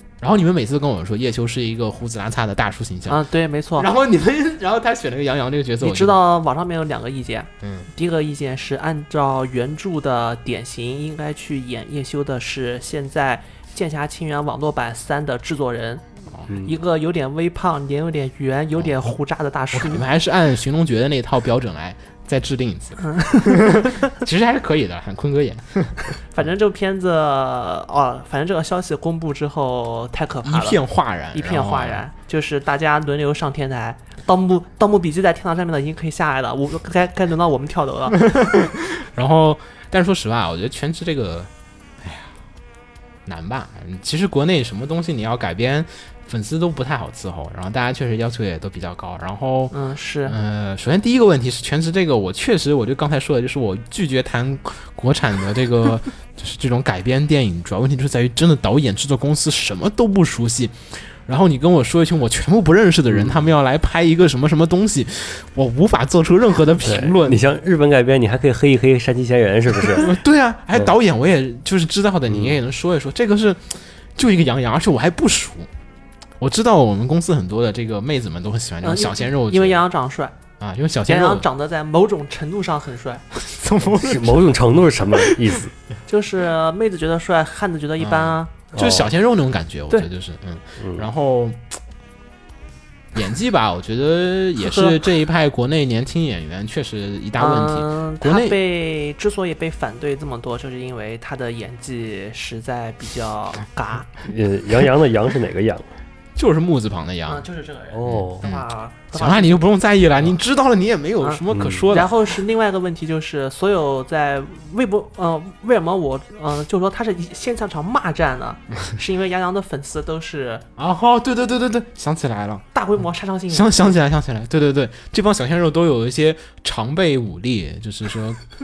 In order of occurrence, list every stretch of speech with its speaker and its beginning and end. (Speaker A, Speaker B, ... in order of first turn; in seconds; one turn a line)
Speaker A: 0.2-3.2
Speaker B: 3.1-3.9
Speaker A: 3.8-6.2
Speaker B: 5.8-20.1
Speaker A: 7.6-7.9
Speaker C: 16.5-16.7
Speaker A: 19.7-26.1
Speaker B: 23.0-24.0
Speaker B: 26.3-30.8
Speaker A: 30.4-32.0
Speaker B: 31.3-38.2
Speaker A: 38.2-41.5
Speaker A: 42.0-42.3
Speaker A: 43.2-49.7
Speaker B: 49.7-50.4
Speaker A: 50.2-67.4
Speaker C: 63.1-63.5
Speaker C: 66.8-70.1
Speaker A: 69.9-75.7
Speaker C: 72.3-72.5
Speaker A: 76.4-79.8
Speaker B: 78.8-80.3
Speaker A: 80.6-81.5
Speaker B: 81.1-83.2
Speaker A: 83.3-84.5
Speaker C: 84.0-85.7
Speaker B: 86.1-88.5
Speaker A: 88.0-91.6
Speaker C: 88.7-89.1
Speaker C: 90.8-91.1
Speaker A: 93.1-98.6
Speaker B: 94.6-95.0
Speaker B: 97.4-104.1
Speaker C: 104.2-105.8
Speaker A: 106.3-107.5
Speaker B: 107.2-109.6
Speaker C: 107.9-108.4
Speaker A: 108.0-112.1
Speaker B: 111.2-120.6
Speaker C: 111.5-111.9
Speaker A: 120.8-122.6
Speaker B: 122.7-123.9
Speaker A: 123.5-128.4